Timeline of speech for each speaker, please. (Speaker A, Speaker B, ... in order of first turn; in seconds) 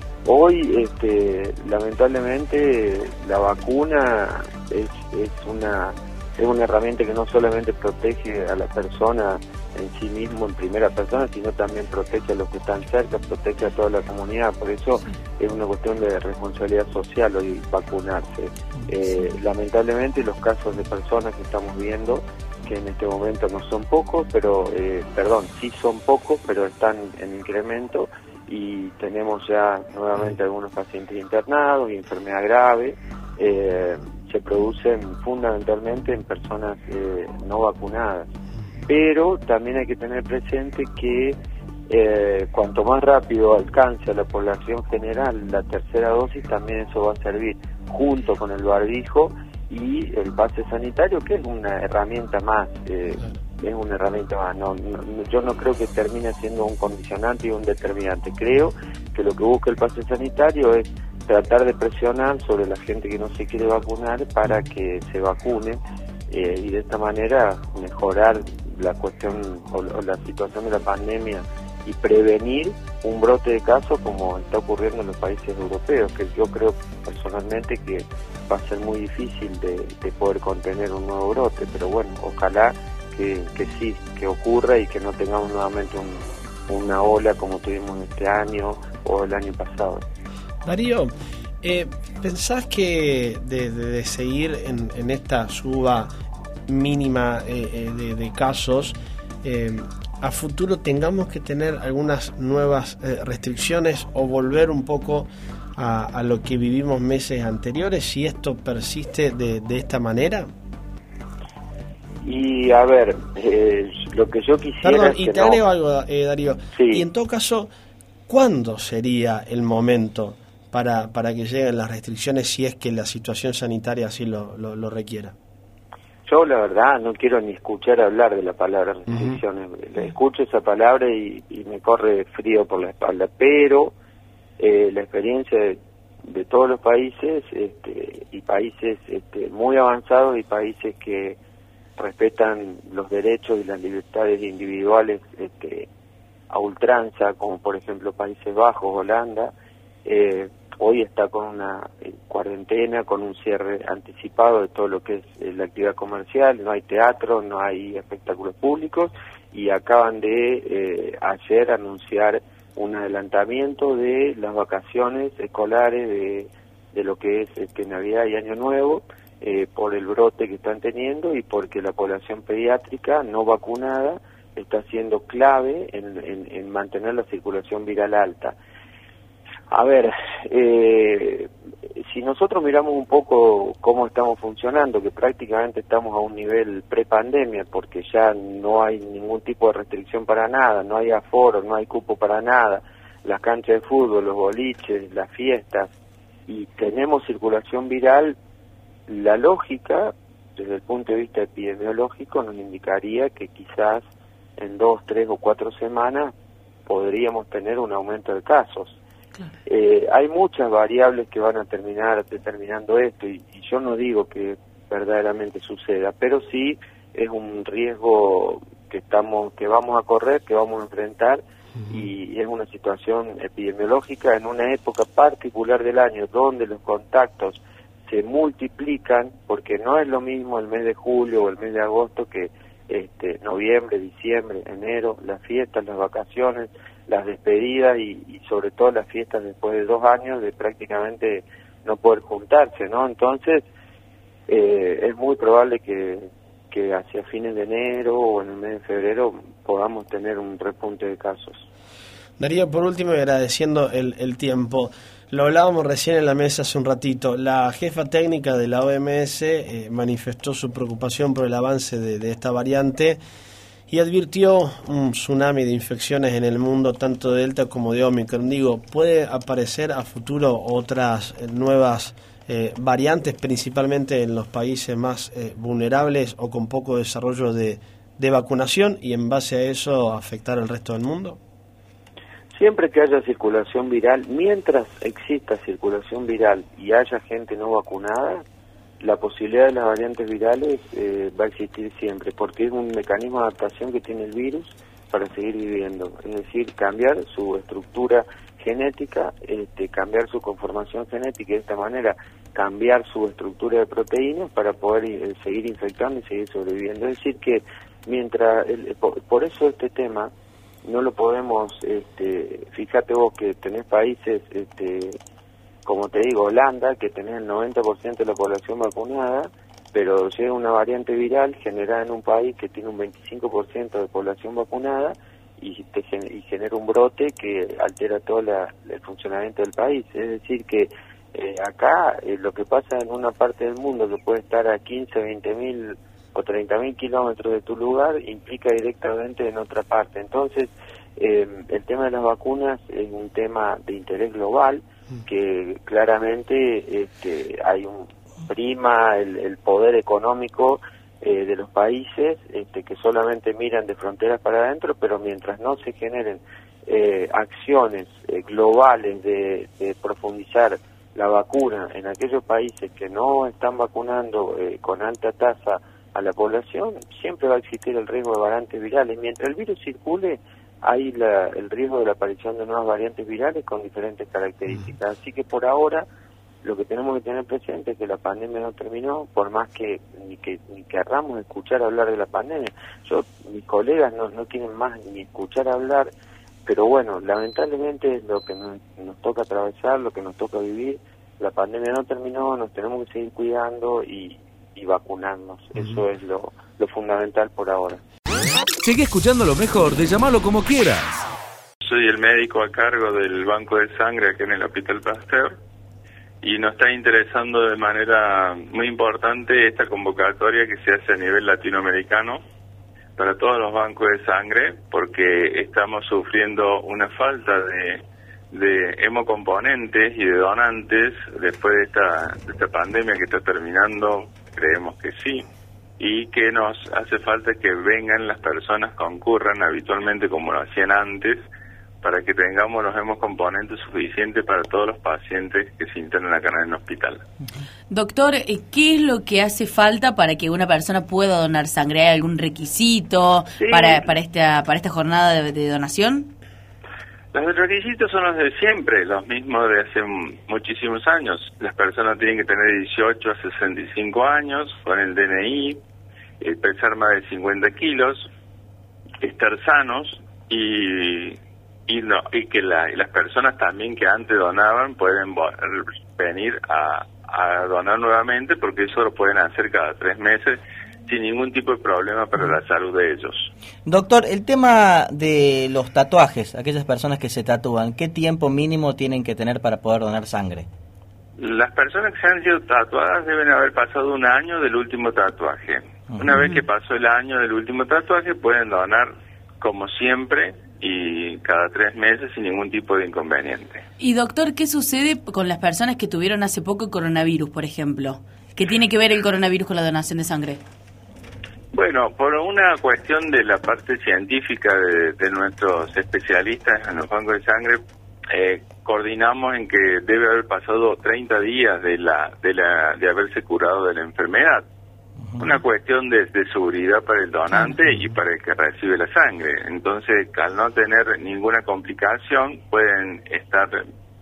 Speaker A: 0.2-38.3, 38.9-41.4, 41.9-90.0, 112.2-115.6, 116.7-117.0, 126.2-133.9, 134.6-141.4, 142.0-145.9, 146.5-149.5, 150.0-178.6, 179.7-195.9, 196.5-198.3, 199.1-204.0, 204.6-206.3, 206.8-209.0, 209.7-243.7, 244.5-251.6, 282.5-288.4, 289.0-310.3, 310.8-315.2, 315.8-376.1, 376.6-386.1, 386.6-398.0
Speaker B: 90.6-96.1, 96.7-110.5, 114.8-117.7, 118.3-125.3, 129.1-129.3, 252.4-263.2, 263.9-281.4
Speaker C: 398.8-401.3
Speaker D: 401.8-405.6, 406.4-412.4, 413.2-425.4, 426.0-431.4, 432.0-437.2, 443.5-444.0, 447.3-455.8, 456.4-458.3, 459.2-473.5, 481.4-493.8, 501.7-514.6, 515.4-523.8
Speaker E: 437.9-446.3, 486.3-486.6, 494.0-500.6
Speaker F: 473.9-480.7, 486.1-486.4